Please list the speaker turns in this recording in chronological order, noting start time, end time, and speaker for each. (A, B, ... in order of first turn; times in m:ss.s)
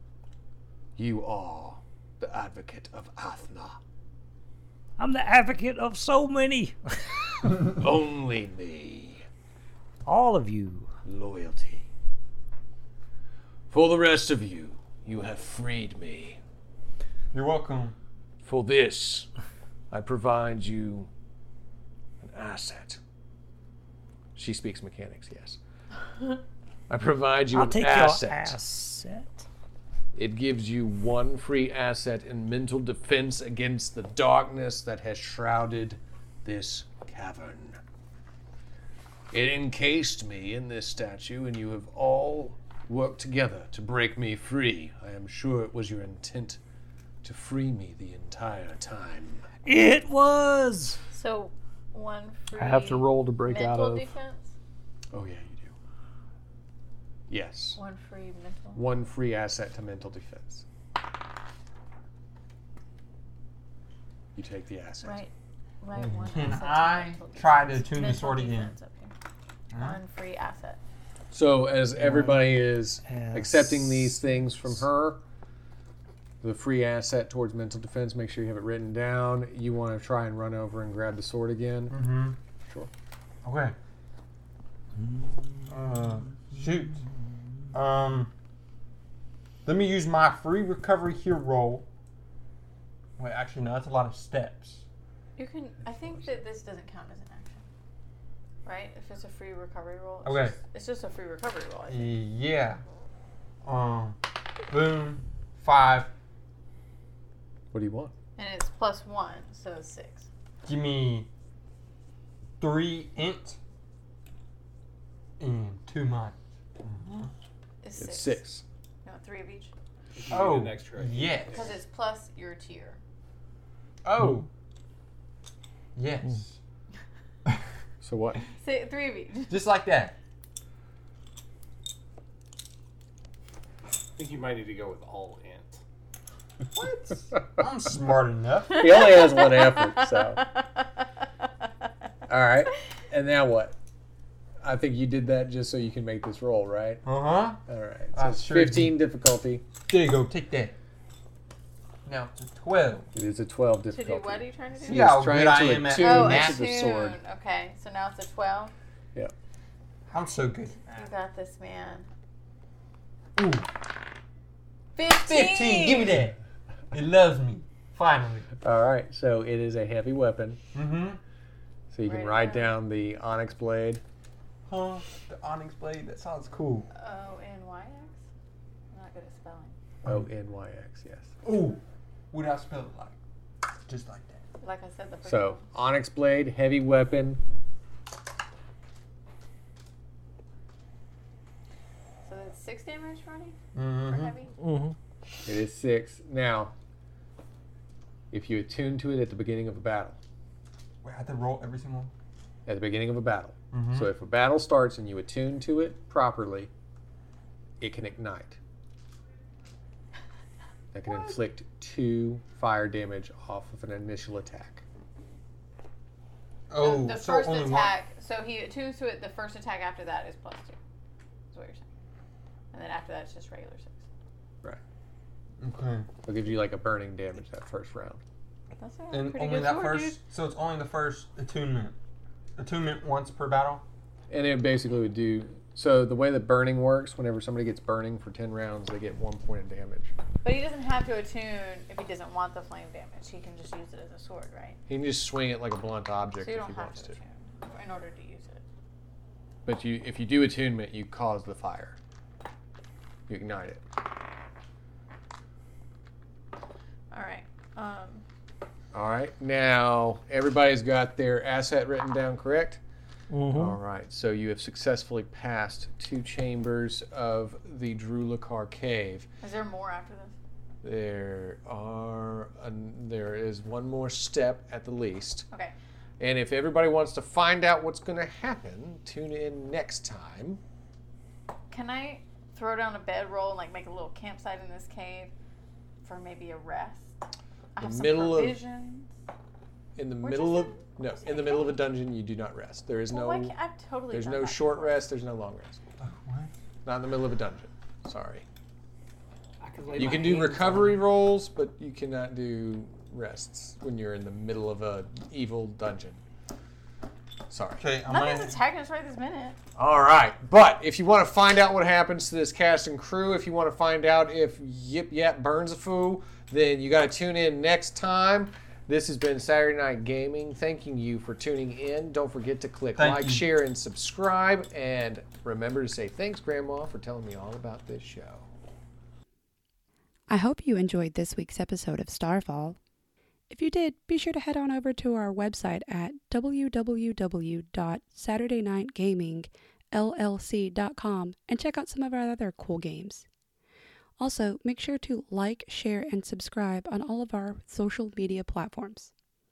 0:01.0-0:03.8 A
0:05.0-0:07.6 B
0:07.7-0:09.2 A
0:10.0-0:10.9 B
0:11.0-0:11.9 A
0:13.7-0:16.4 A
0:17.3-0:18.0 C
0:18.4-0:19.3 A
0:19.9-0:21.1 A
0:22.2-0:23.0 A
0:24.4-0:25.6 A
0:26.9-0:28.6 A
0:27.5-0:29.4 B
0:30.1-0:37.8 A
0:39.3-0:46.6 A
0:47.2-0:49.4 A
0:49.6-0:51.0 B
0:51.1-0:54.5 D
0:52.5-0:54.1 E
0:55.1-0:55.7 A
0:57.3-0:57.8 A
0:57.8-0:58.8 D
0:58.7-1:00.6 A
1:04.3-1:05.2 A
1:05.0-1:09.1 D
1:06.0-1:08.7 C
1:09.7-1:10.0 C
1:09.8-1:10.8 D
1:11.3-1:15.2 A
1:12.0-1:14.2 B
1:16.4-1:22.1 A
1:21.9-1:22.4 C
1:22.6-1:22.9 A
1:23.4-1:23.8 C
1:25.0-1:25.7 B
1:25.7-1:27.0 C
1:27.7-1:28.3 C
1:29.6-1:31.9 C
1:33.2-1:34.8 C
1:35.4-1:37.7 D
1:38.6-1:42.2 D
1:40.2-1:40.6 C
1:41.9-1:42.8 C
1:43.6-1:46.1 C
1:47.7-1:48.1 A
1:48.4-1:50.3 D
1:50.6-1:51.3 C
1:52.6-1:53.6 C
1:55.4-1:57.3 C
1:57.8-1:58.4 D
1:58.0-1:58.6 A
1:59.0-1:59.7 D
2:00.1-2:01.8 F
2:00.3-2:01.7 C
2:01.5-2:03.0 D
2:04.0-2:04.5 C
2:05.9-2:06.6 C
2:08.0-2:08.4 A
2:08.4-2:09.6 D
2:09.5-2:10.1 C
2:14.2-2:15.8 F
2:16.7-2:18.9 C
2:18.7-2:20.4 A
2:18.9-2:20.6 D
2:22.3-2:23.8 A
2:24.6-2:27.0 A
2:27.0-2:27.6 C
2:27.6-2:29.6 A
2:28.1-2:28.9 C
2:29.8-2:30.7 C
2:32.0-2:33.1 C
2:33.1-2:37.2 A
2:33.9-2:35.2 D
2:34.8-2:36.6 C
2:35.9-2:38.7 D
2:40.1-2:41.1 C
2:40.9-2:42.1 D
2:43.4-2:43.7 C
2:45.0-2:46.2 D
2:45.1-2:46.4 C
2:46.9-2:48.5 C
2:48.6-2:50.6 A
2:50.7-2:51.2 C
2:51.9-2:54.0 A
2:52.0-2:52.7 D
2:54.6-2:56.9 C
2:56.9-2:58.2 D
2:58.9-2:59.8 D
3:00.0-3:01.3 A
3:01.4-3:03.2 C
3:03.8-3:04.4 C
3:04.6-3:05.7 D
3:05.2-3:07.4 A
3:12.2-3:14.5 D
3:13.7-3:14.4 C
3:14.6-3:14.9 E
3:15.4-3:16.7 A
3:18.3-3:20.2 A
3:21.0-3:22.1 C
3:22.6-3:26.7 A
3:23.7-3:24.1 C
3:27.8-3:28.6 A
3:30.9-3:34.8 A
3:36.7-3:37.9 C
3:36.8-3:40.8 D
3:41.5-3:41.8 D
3:42.7-3:44.1 D
3:45.6-3:46.1 C
3:46.2-3:48.2 A
3:48.8-3:50.2 D
3:49.1-3:52.0 C
3:52.6-3:53.8 C
3:54.3-4:00.1 A
4:00.4-4:04.8 D
4:04.9-4:07.2 A
4:06.4-4:08.6 D
4:09.6-4:12.0 A
4:13.3-4:13.8 A
4:17.1-4:18.2 D
4:18.9-4:22.8 A
4:23.3-4:23.8 E
4:23.5-4:29.3 A
4:29.4-4:30.4 D
4:30.8-4:35.4 A
4:36.2-4:40.6 A
4:41.7-4:45.3 D
4:46.0-4:49.1 D
4:47.8-4:48.6 A
4:50.0-4:53.5 A
4:50.2-4:51.8 D
4:53.1-4:55.0 D
4:54.1-4:55.8 A
4:56.0-4:56.5 C
4:56.8-4:58.4 A
4:59.6-5:01.0 F
4:59.9-5:06.2 A
5:00.0-5:00.8 C
5:07.5-5:07.8 A
5:07.8-5:08.6 C
5:08.0-5:09.6 D
5:09.8-5:28.5 A
5:23.0-5:23.4 C
5:30.3-5:32.8 G
5:33.5-5:43.2 G
5:44.2-5:49.1 G